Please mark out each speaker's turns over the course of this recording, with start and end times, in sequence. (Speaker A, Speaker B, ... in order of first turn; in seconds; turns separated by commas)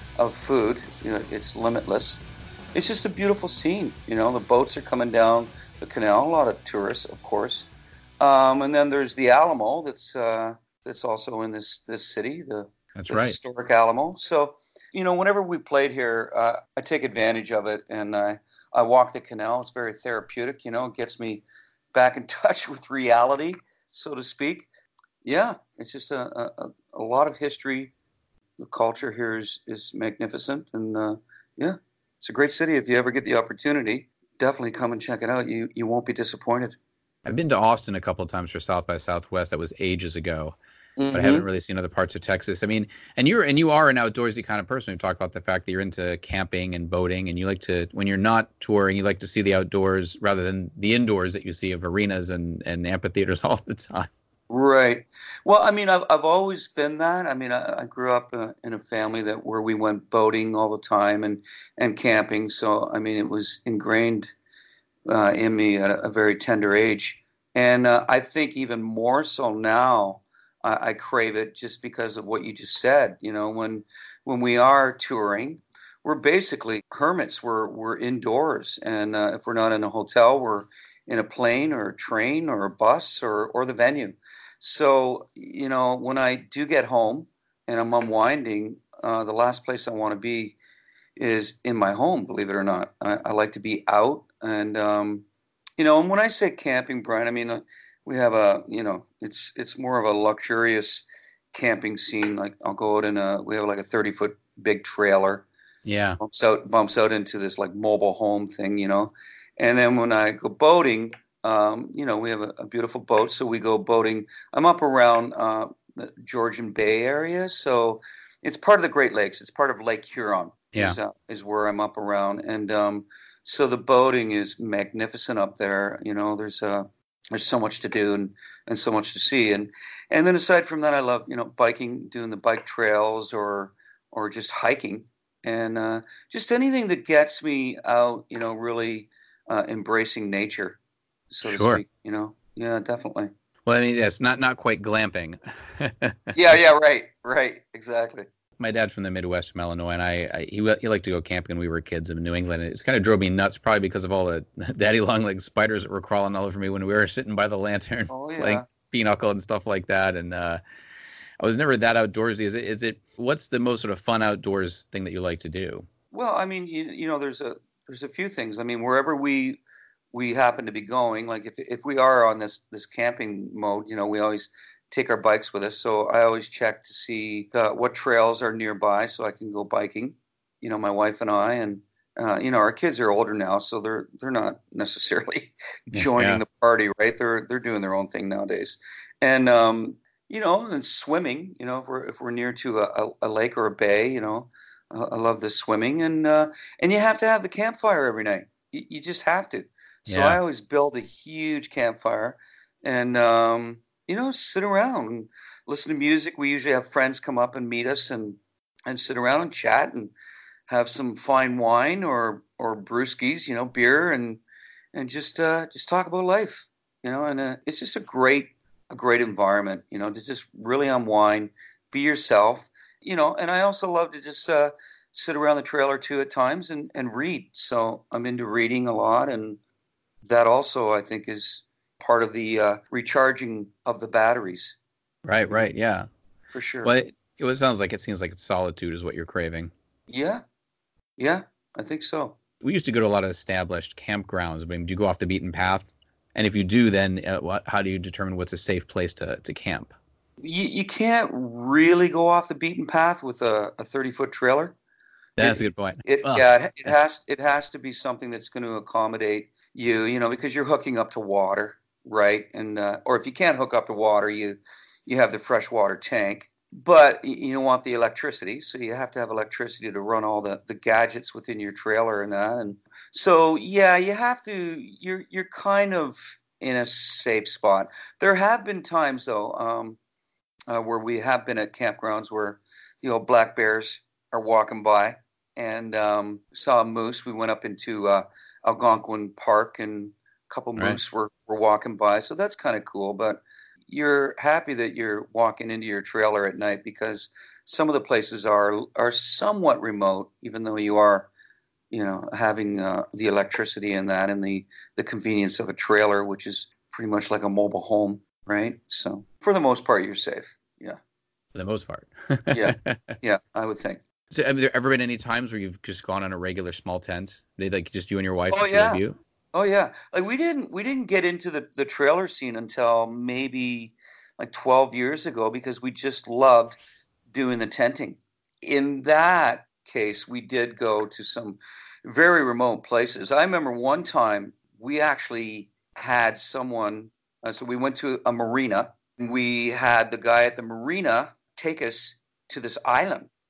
Speaker A: 0.2-2.2, Speaker A: 2.7-7.7, Speaker A: 8.2-24.7, Speaker B: 12.9-13.4, Speaker A: 25.2-27.9, Speaker A: 28.6-36.8, Speaker B: 37.2-40.6, Speaker A: 41.0-41.5, Speaker B: 41.1-54.1, Speaker A: 54.5-64.3, Speaker A: 65.1-90.6, Speaker A: 91.2-95.3, Speaker A: 95.8-105.5, Speaker B: 105.8-106.2, Speaker A: 106.2-140.8, Speaker A: 141.3-143.3, Speaker B: 141.4-141.8, Speaker B: 143.7-146.4, Speaker A: 146.3-148.3, Speaker B: 148.6-160.6, Speaker A: 158.1-158.7, Speaker B: 161.4-165.9, Speaker A: 166.1-169.6, Speaker A: 170.1-210.1, Speaker B: 185.9-186.4, Speaker B: 200.1-200.4, Speaker A: 210.7-214.4, Speaker A: 214.9-229.6, Speaker A: 230.2-234.8, Speaker B: 235.2-236.1, Speaker A: 236.5-236.9, Speaker B: 236.8-239.7, Speaker A: 240.1-240.4, Speaker A: 241.2-242.4, Speaker B: 242.6-249.9, Speaker A: 250.4-254.8, Speaker B: 255.4-256.9, Speaker A: 255.4-280.0, Speaker A: 280.7-301.3, Speaker A: 301.9-311.0, Speaker B: 311.5-313.1, Speaker A: 312.5-314.0, Speaker B: 314.3-319.2, Speaker A: 318.5-326.8, Speaker A: 327.3-343.3